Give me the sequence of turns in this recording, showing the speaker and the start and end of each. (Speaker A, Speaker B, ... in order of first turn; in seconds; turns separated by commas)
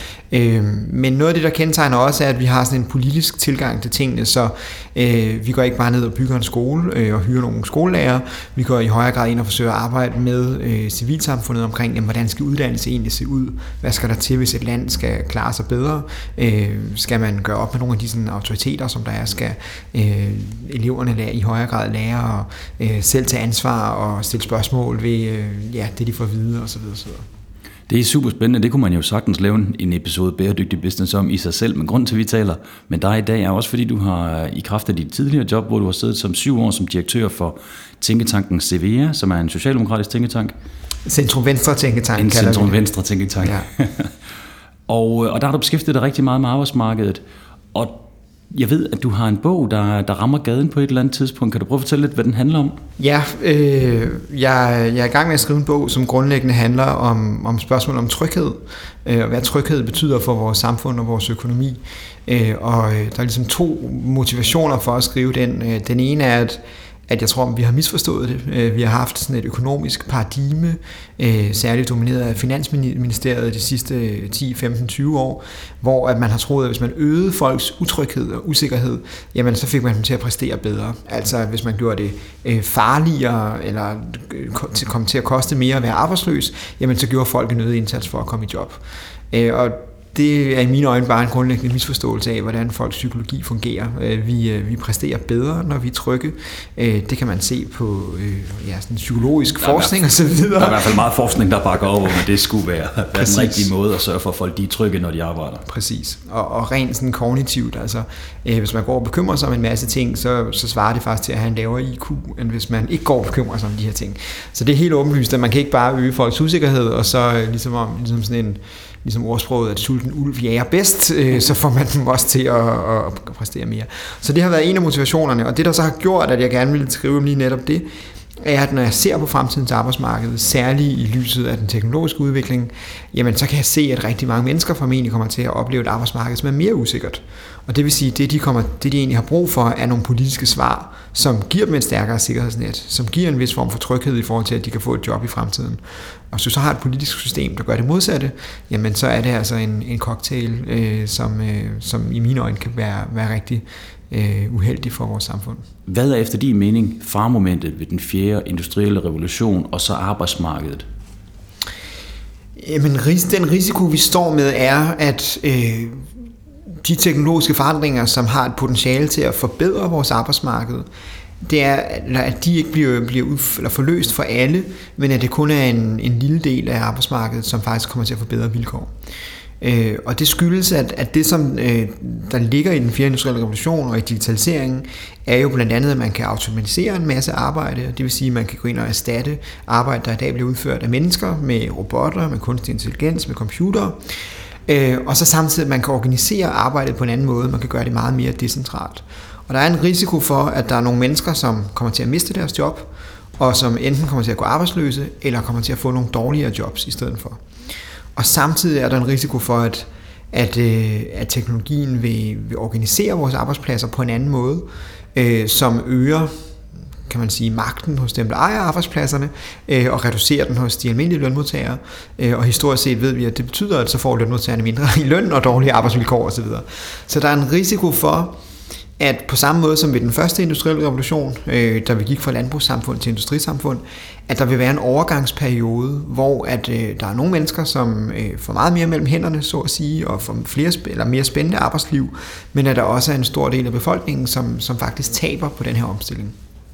Speaker A: 0.3-27.2, Speaker B: 27.9-40.5, Speaker A: 41.0-42.8, Speaker B: 42.2-44.1, Speaker A: 43.4-43.7, Speaker B: 44.9-47.2, Speaker B: 47.7-52.8, Speaker A: 53.0-101.0, Speaker B: 99.6-105.6, Speaker A: 103.1-103.7, Speaker A: 105.7-127.9, Speaker A: 128.4-155.6, Speaker B: 155.9-160.8, Speaker A: 162.6-166.1, Speaker A: 166.8-170.9, Speaker A: 171.4-178.9, Speaker A: 179.6-194.1, Speaker A: 194.7-207.4, Speaker A: 208.2-216.3, Speaker A: 217.1-228.3, Speaker A: 229.0-246.3